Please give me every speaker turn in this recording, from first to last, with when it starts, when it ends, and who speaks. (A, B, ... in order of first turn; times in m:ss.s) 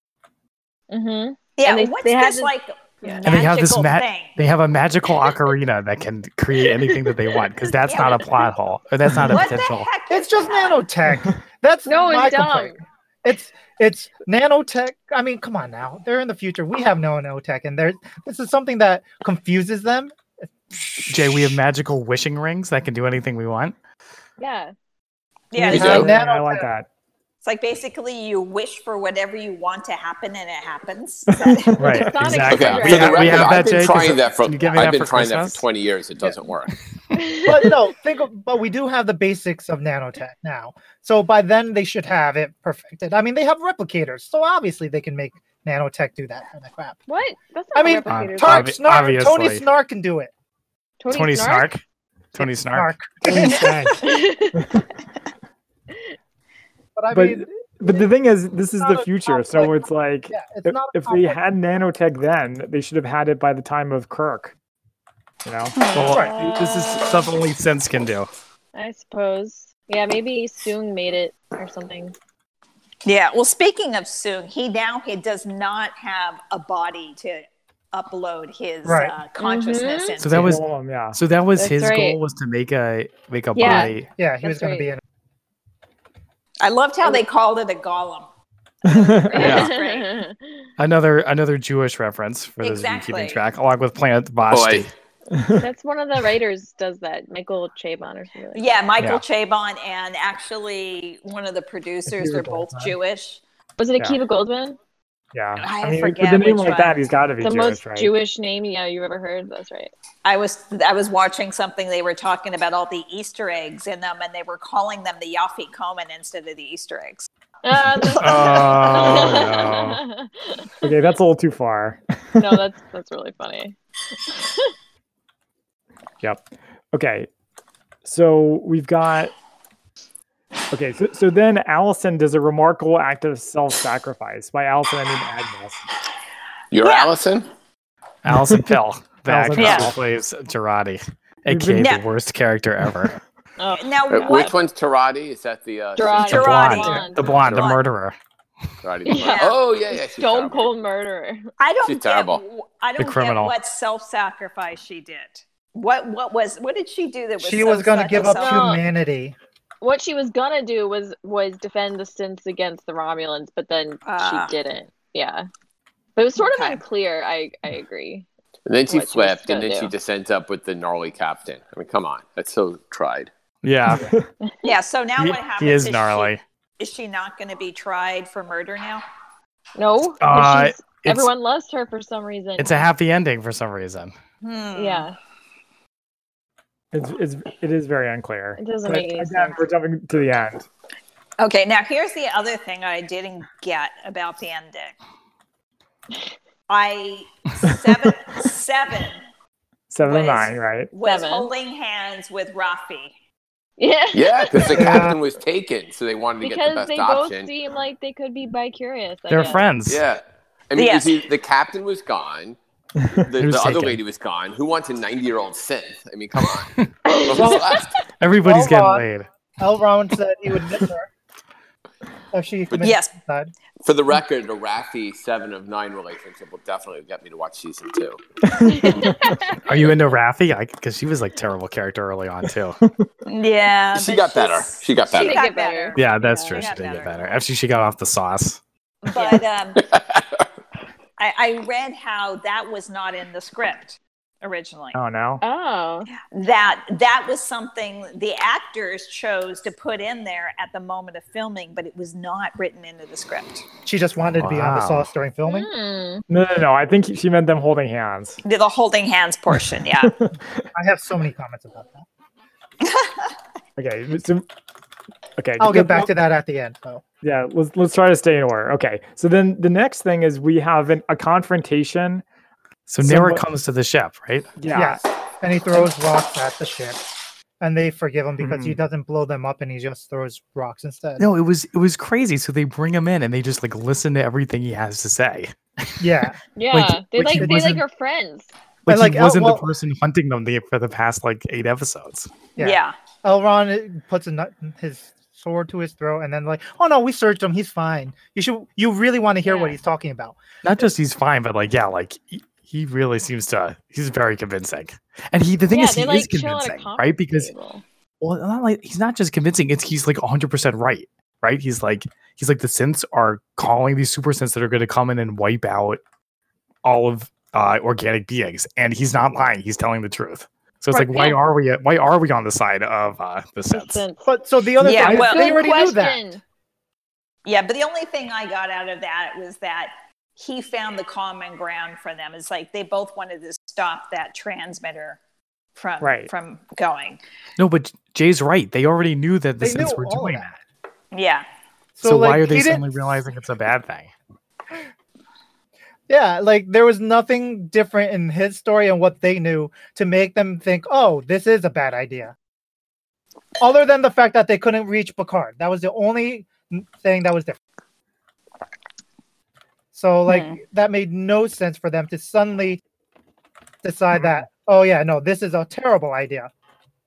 0:00.9-0:03.2 A
0:01.6-0:04.4 B
0:03.2-0:09.9 C
0:07.9-0:08.4 B
0:09.2-0:10.9 B
0:10.1-0:20.2 D
0:11.9-0:12.8 A
0:20.7-0:21.2 D
0:21.0-0:23.8 C
0:24.4-0:24.7 A
0:25.5-0:26.1 B
0:25.6-0:26.7 D
0:25.6-0:26.9 E
0:25.7-0:26.1 F
0:27.4-0:31.9 B
0:31.3-0:32.1 E
0:31.8-0:35.6 C
0:31.8-0:33.8 A
0:32.4-0:36.8 F
0:37.1-0:37.7 A
0:37.5-0:47.0 D
0:47.1-0:48.8 A
0:47.7-0:50.3 D
0:48.1-0:49.6 C
0:51.0-0:51.7 A
0:51.1-0:51.8 C
0:52.3-0:52.9 C
0:52.6-0:54.1 D
0:53.3-0:53.7 B
0:53.4-0:53.7 E
0:54.0-0:54.6 A
0:54.6-0:54.8 E
0:57.0-0:58.0 D
0:57.1-1:04.5 E
0:58.8-1:01.4 D
1:05.4-1:05.8 E
1:05.8-1:06.2 B
1:05.9-1:08.3 C
1:06.1-1:07.3 A
1:08.7-1:12.1 A
1:13.0-1:20.5 B
1:18.8-1:19.2 D
1:19.4-1:20.3 A
1:20.2-1:24.1 C
1:20.3-1:21.2 E
1:21.6-1:22.2 A
1:23.5-1:24.9 A
1:23.6-1:25.0 D
1:26.6-1:28.3 B
1:28.8-1:30.3 B
1:28.8-1:29.6 E
1:29.3-1:30.4 A
1:29.4-1:29.7 C
1:30.8-1:34.9 C
1:32.6-1:33.4 B
1:34.5-1:34.9 F
1:35.3-1:35.6 E
1:35.6-1:38.9 A
1:38.5-1:43.4 B
1:42.1-1:42.9 E
1:43.8-1:44.8 A
1:45.3-1:48.1 E
1:45.6-1:47.0 B
1:47.4-1:49.9 A
1:50.2-1:57.3 B
1:57.6-2:00.9 A
1:58.2-2:00.0 C
1:58.3-1:59.0 B
2:00.8-2:02.6 E
2:02.4-2:03.8 A
2:04.2-2:04.7 A
2:06.2-2:07.3 E
2:08.0-2:09.3 E
2:10.7-2:15.8 E
2:16.7-2:17.5 F
2:16.8-2:17.1 B
2:18.2-2:23.2 C
2:18.3-2:18.8 E
2:19.3-2:20.0 E
2:19.5-2:19.9 B
2:21.5-2:22.0 E
2:21.8-2:22.1 B
2:23.6-2:24.5 A
2:23.8-2:24.5 B
2:24.1-2:26.6 F
2:26.0-2:27.3 A
2:26.0-2:27.8 B
2:26.3-2:28.2 C
2:27.3-2:27.7 F
2:28.8-2:30.7 F
2:29.1-2:31.5 A
2:29.2-2:29.6 B
2:31.6-2:38.8 B
2:31.8-2:32.4 F
2:33.0-2:33.5 C
2:37.4-2:39.4 D
2:38.2-2:38.8 A
2:39.8-2:45.5 A
2:44.1-2:44.6 B
2:46.2-2:48.2 A
2:46.4-2:46.8 B
2:48.6-2:53.3 F
2:48.9-2:49.9 A
2:53.6-2:54.1 C
2:53.9-2:54.3 E
2:54.5-2:54.7 A
2:54.6-2:59.0 B
2:55.2-2:56.4 C
2:59.8-3:02.8 A
3:00.2-3:01.3 C
3:02.6-3:04.1 C
3:04.4-3:05.1 B
3:04.8-3:05.2 A
3:06.9-3:10.7 E
3:08.6-3:09.6 A
3:11.4-3:15.0 B
3:16.7-3:19.2 B
3:19.9-3:20.9 E
3:20.0-3:23.1 B
3:21.0-3:21.5 A
3:23.8-3:25.1 A
3:24.1-3:27.5 F
3:24.6-3:25.2 D
3:26.4-3:29.7 A
3:29.3-3:30.0 C
3:29.9-3:32.6 F
3:30.8-3:31.3 B
3:33.2-3:36.7 F
3:33.3-3:34.0 C
3:36.6-3:36.9 C
3:37.0-3:37.9 A
3:37.3-3:37.9 F
3:37.4-3:37.6 D
3:38.2-3:39.3 C
3:38.4-3:39.0 D
3:39.6-3:41.1 D
3:42.3-3:43.5 D
3:42.8-3:43.1 B
3:43.8-3:48.2 F
3:48.4-3:49.4 E
3:48.6-3:50.0 A
3:49.6-3:52.8 C
3:52.8-3:53.1 E
3:53.2-3:57.4 B
3:53.9-3:55.4 F
3:55.1-3:56.7 A
3:56.0-3:58.6 C
3:59.0-3:59.9 B
3:59.1-3:59.4 A
3:59.9-4:00.4 F
4:01.2-4:05.0 B
4:04.9-4:05.4 E
4:05.4-4:06.1 A
4:06.1-4:13.7 B
4:13.9-4:15.7 D
4:14.4-4:15.1 C
4:15.5-4:16.2 A
4:16.3-4:18.4 E
4:18.4-4:20.1 B
4:19.5-4:20.7 E
4:20.8-4:22.1 D
4:22.8-4:23.3 B
4:23.8-4:24.5 E
4:25.4-4:26.1 E
4:25.6-4:27.0 D
4:27.2-4:32.2 E
4:32.9-4:34.5 C
4:33.0-4:33.4 E
4:34.6-4:35.0 E
4:34.7-4:37.1 D
4:37.6-4:41.2 D
4:38.4-4:38.8 E
4:41.2-4:47.8 C
4:46.0-4:46.4 D
4:46.5-4:48.5 A
4:47.4-4:47.6 D
4:48.9-4:52.3 C
4:48.9-4:49.6 D
4:52.6-5:00.4 D
4:52.6-4:53.0 B
4:59.4-4:59.8 A
5:00.6-5:07.5 C
5:05.7-5:07.8 A
5:08.2-5:16.0 C
5:16.8-5:24.0 C
5:20.9-5:21.4 A
5:23.7-5:24.2 A
5:24.2-5:26.2 D
5:24.8-5:25.7 B
5:25.0-5:26.4 A
5:27.4-5:35.2 B
5:35.8-5:37.2 B
5:36.0-5:36.3 E
5:37.6-5:40.6 C
5:39.6-5:40.5 D
5:41.1-5:41.4 B
5:42.0-5:42.9 D
5:42.0-5:44.1 C
5:46.1-5:52.4 D
5:53.6-5:57.6 D
5:59.9-6:02.8 D
6:00.3-6:00.6 B
6:03.8-6:06.5 D
6:04.2-6:04.4 E